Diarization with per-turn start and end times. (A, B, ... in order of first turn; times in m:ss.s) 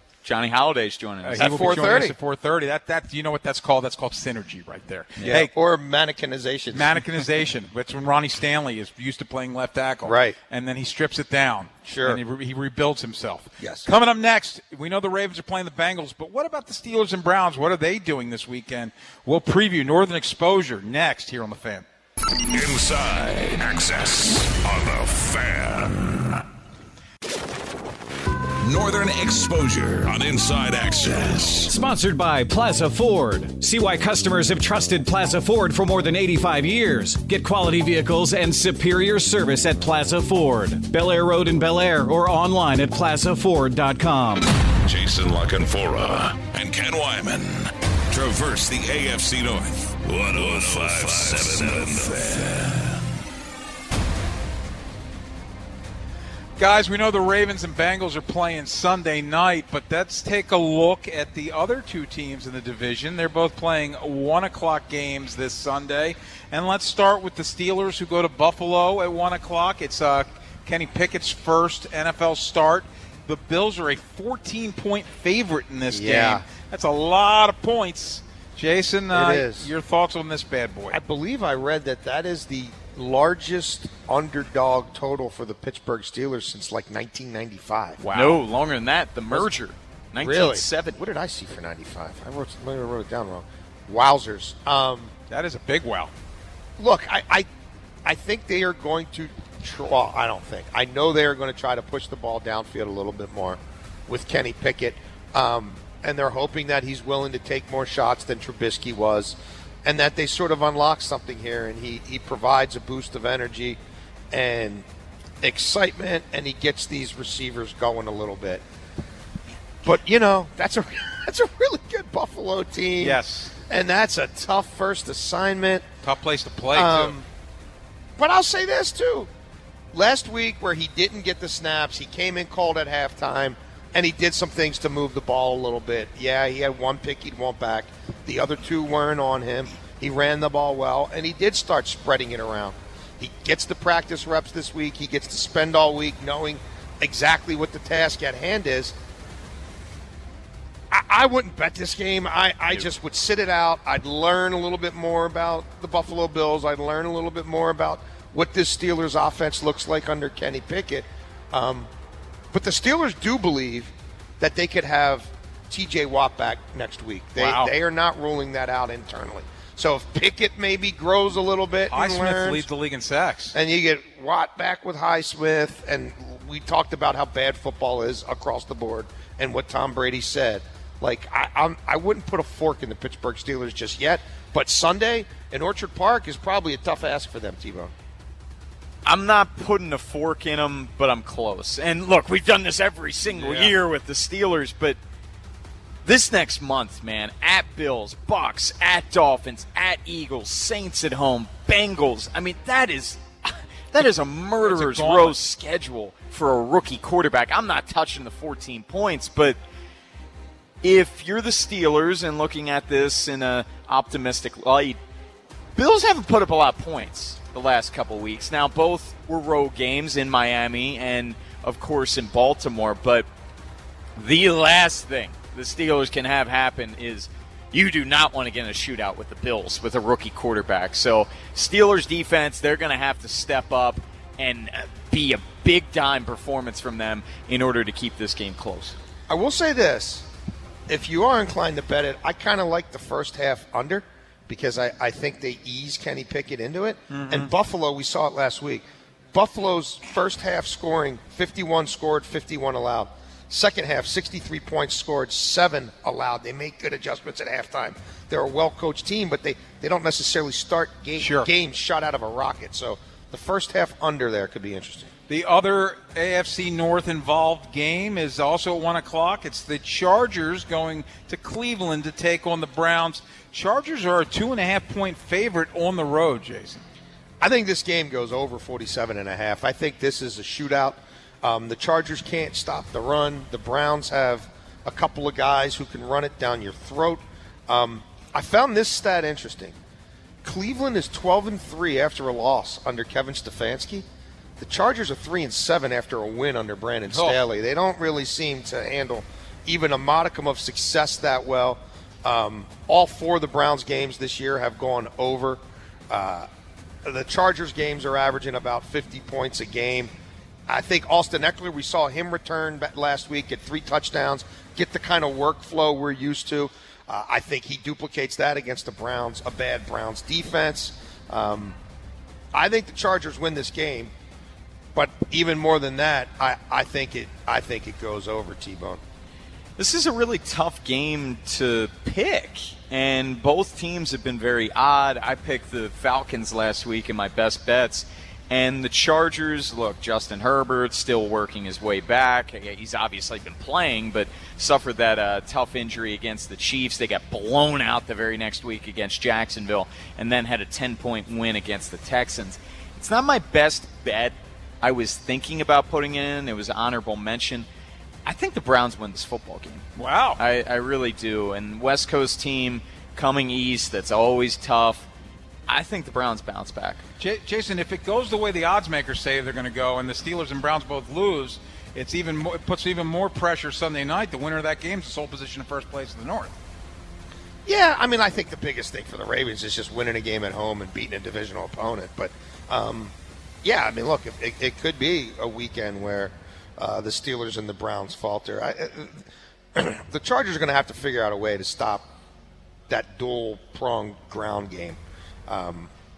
0:00.2-0:02.0 A
0:01.2-0:05.5 B
0:01.4-0:02.2 C
0:05.2-0:07.0 C
0:06.7-0:21.8 B
0:10.0-0:10.4 C
0:11.9-0:12.2 C
0:13.6-0:13.9 C
0:22.5-0:26.4 D
0:28.6-0:31.7 D
0:31.7-0:44.5 E
0:44.8-0:53.0 D
0:56.6-1:21.0 B
1:15.9-1:16.4 C
1:19.1-1:19.7 C
1:20.9-1:28.0 C
1:28.0-1:28.4 B
1:28.1-1:31.0 A
1:30.2-1:35.1 C
1:35.3-1:36.1 B
1:36.8-1:37.5 C
1:38.0-1:53.8 C
1:54.3-1:54.8 C
1:55.4-1:58.6 C
1:59.8-2:05.9 C
2:03.0-2:03.6 B
2:06.0-2:07.2 B
2:06.7-2:07.3 C
2:08.2-2:09.3 C
2:09.9-2:29.0 C
2:30.9-2:41.9 C
2:42.5-2:52.6 C
2:47.4-2:47.7 B
2:51.9-2:53.6 B
2:53.5-3:07.9 C
3:09.0-3:15.0 A
3:13.2-3:13.7 B
3:16.0-3:29.6 A
3:24.6-3:25.4 B
3:30.8-3:35.0 A
3:35.8-3:43.3 A
3:44.2-3:59.0 A
3:59.3-4:00.3 C
4:00.9-4:08.8 C
4:07.1-4:07.5 B
4:09.3-4:25.1 C
4:21.2-4:21.5 B
4:25.3-4:36.8 B
4:37.4-4:49.8 C
4:50.4-4:54.0 C
4:54.6-5:06.5 C
4:57.1-4:57.4 B
5:07.0-5:10.1 C
5:10.7-5:21.8 C
5:22.5-5:24.1 C
5:25.0-5:29.0 C
5:29.8-5:57.7 A
5:58.2-5:59.9 A
6:00.0-6:00.4 B
6:00.4-6:05.1 A
6:05.7-6:07.0 A
6:07.2-6:16.5 B
6:17.7-6:23.1 C
6:23.6-6:32.1 C
6:32.9-6:35.9 C